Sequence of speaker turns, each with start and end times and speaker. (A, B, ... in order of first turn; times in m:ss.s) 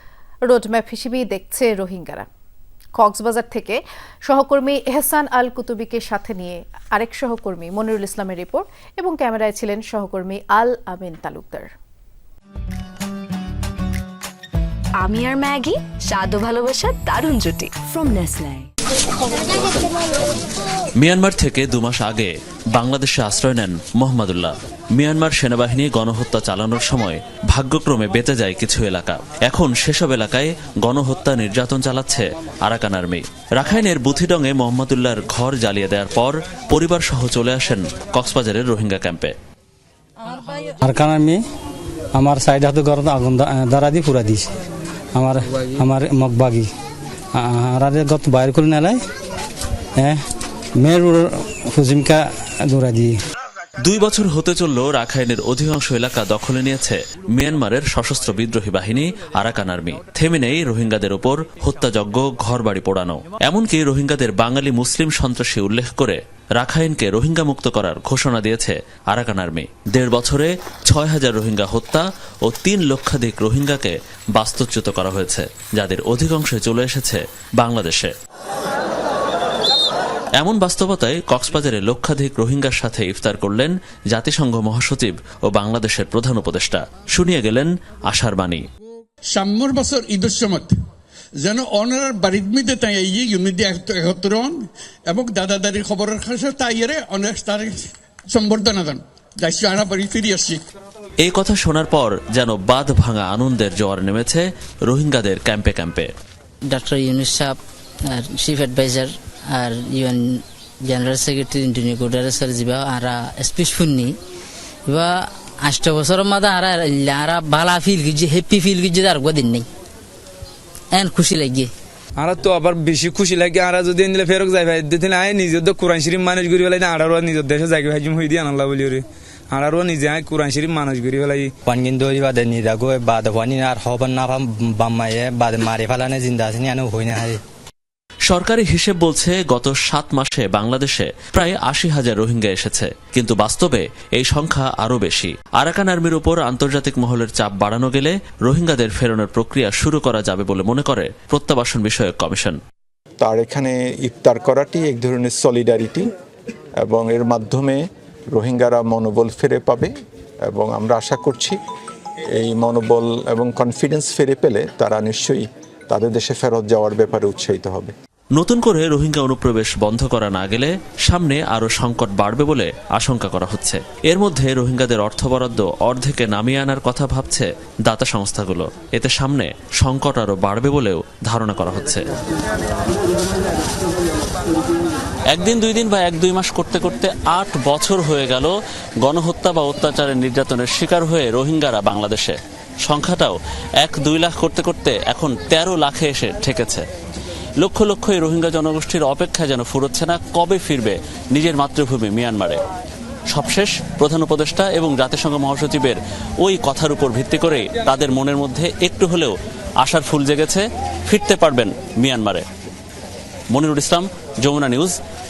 0:00.5-0:02.3 A
0:03.0-0:11.7 A
0:15.0-0:18.6 B
0:21.0-0:39.3 C
0:40.8-0:41.4 D
0:42.2-0:44.5 D
0:45.2-0:46.7 D
0:47.4-0:49.0 D
0:50.8-0:53.1 D
0:53.8-1:18.1 C
1:20.4-1:28.6 C
1:29.4-1:30.7 E
1:31.4-1:40.6 E
1:41.2-1:46.1 C
1:46.7-1:47.6 F
1:48.1-1:54.2 F
1:54.9-1:59.7 F
2:00.9-2:01.7 F
2:02.2-2:11.5 G
2:11.7-2:17.4 H
2:18.3-2:32.6 C
2:33.2-2:36.1 I
2:36.8-2:39.9 I
2:40.5-2:41.6 I
2:42.4-2:47.9 I
2:48.4-3:02.1 C
3:05.3-3:16.8 C
3:17.6-3:22.6 C
3:23.3-3:32.4 C
3:33.5-3:35.0 C